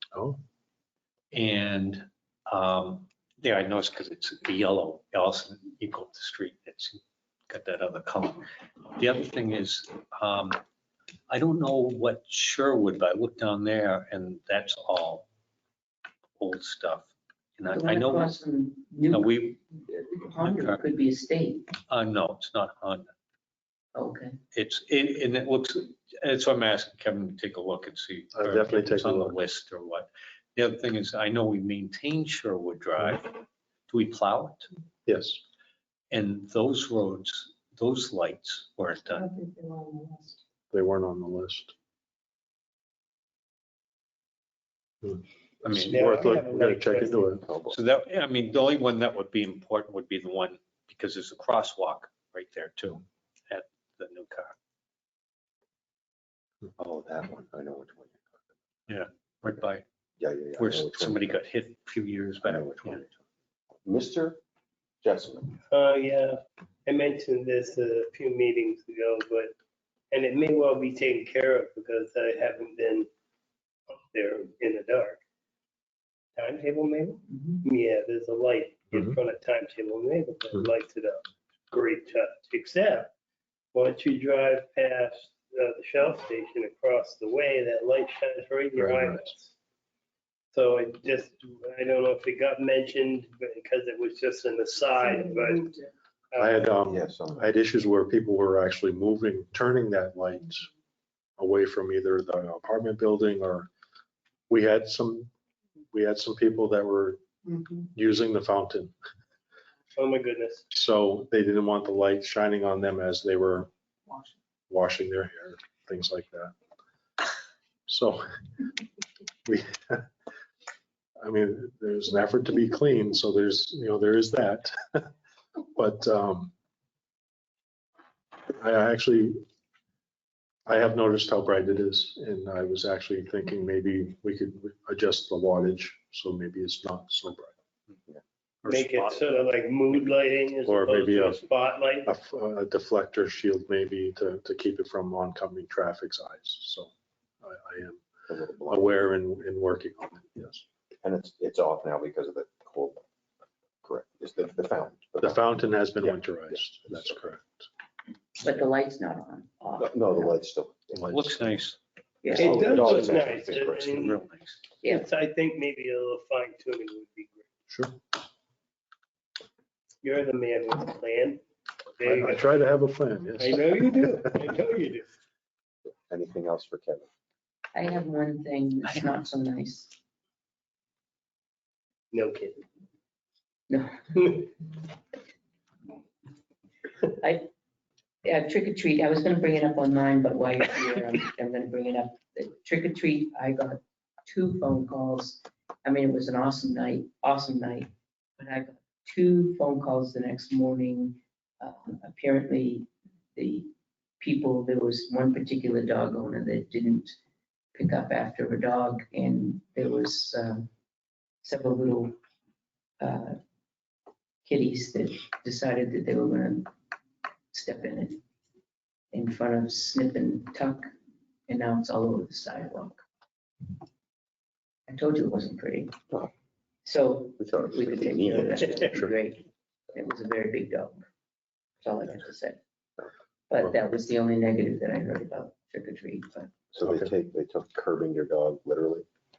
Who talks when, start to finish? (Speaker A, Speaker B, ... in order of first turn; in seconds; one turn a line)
Speaker A: 0.1-0.4
Speaker B: 1.3-10.6
Speaker B: 11.3-15.3
Speaker B: 16.4-18.4
Speaker C: 17.7-21.7
Speaker B: 19.1-19.6
Speaker B: 20.4-20.8
Speaker B: 21.9-23.1
Speaker C: 23.9-24.4
Speaker B: 24.5-34.7
Speaker A: 28.3-29.4
Speaker A: 35.0-35.4
Speaker B: 36.1-39.4
Speaker A: 40.7-41.7
Speaker A: 45.0-47.4
Speaker B: 45.6-46.1
Speaker D: 45.9-47.4
Speaker E: 47.5-47.8
Speaker B: 47.7-54.5
Speaker E: 56.8-58.4
Speaker B: 58.9-59.8
Speaker E: 60.2-61.4
Speaker B: 60.6-63.0
Speaker E: 62.4-63.1
Speaker E: 63.8-64.4
Speaker E: 65.0-65.5
Speaker D: 65.7-69.5
Speaker D: 70.1-73.1
Speaker D: 74.1-75.2
Speaker D: 76.3-83.1
Speaker A: 78.9-79.2
Speaker D: 83.7-89.5
Speaker A: 88.8-89.3
Speaker D: 90.5-95.8
Speaker D: 96.3-96.7
Speaker A: 96.4-100.7
Speaker E: 96.9-97.5
Speaker A: 101.4-103.7
Speaker A: 104.5-105.3
Speaker A: 105.9-107.2
Speaker A: 107.9-108.9
Speaker D: 110.0-110.6
Speaker A: 110.7-113.7
Speaker A: 114.7-116.5
Speaker A: 117.9-118.2
Speaker A: 119.5-120.0
Speaker A: 121.2-125.1
Speaker A: 125.7-126.5
Speaker A: 128.5-129.4
Speaker A: 130.7-137.5
Speaker A: 138.6-139.3
Speaker D: 138.7-142.1
Speaker A: 140.6-141.4
Speaker A: 142.1-146.9
Speaker A: 147.4-148.0
Speaker E: 148.3-149.0
Speaker A: 148.7-150.6
Speaker E: 151.0-153.0
Speaker E: 153.8-157.2
Speaker A: 155.2-157.7
Speaker C: 158.4-160.4
Speaker E: 159.8-161.4
Speaker B: 161.1-161.8
Speaker C: 162.2-162.9
Speaker E: 162.3-164.0
Speaker D: 162.3-164.1
Speaker B: 163.8-164.6
Speaker D: 164.9-167.4
Speaker A: 167.7-168.0
Speaker D: 170.0-171.4
Speaker D: 171.9-172.5
Speaker A: 172.0-174.5
Speaker D: 173.4-175.1
Speaker E: 176.1-177.1
Speaker C: 177.7-179.9
Speaker D: 182.1-182.6
Speaker C: 183.7-184.0
Speaker D: 184.2-184.4
Speaker C: 187.2-187.5
Speaker C: 188.2-207.1
Speaker C: 207.7-210.7
Speaker C: 211.4-212.2
Speaker C: 213.0-213.4
Speaker C: 214.4-216.7
Speaker C: 217.5-218.2
Speaker C: 219.1-220.8
Speaker C: 221.5-223.0
Speaker C: 224.9-225.9
Speaker C: 226.8-231.0
Speaker E: 227.4-229.1
Speaker C: 231.8-232.6
Speaker C: 233.5-236.5
Speaker E: 236.7-239.1
Speaker A: 236.8-237.1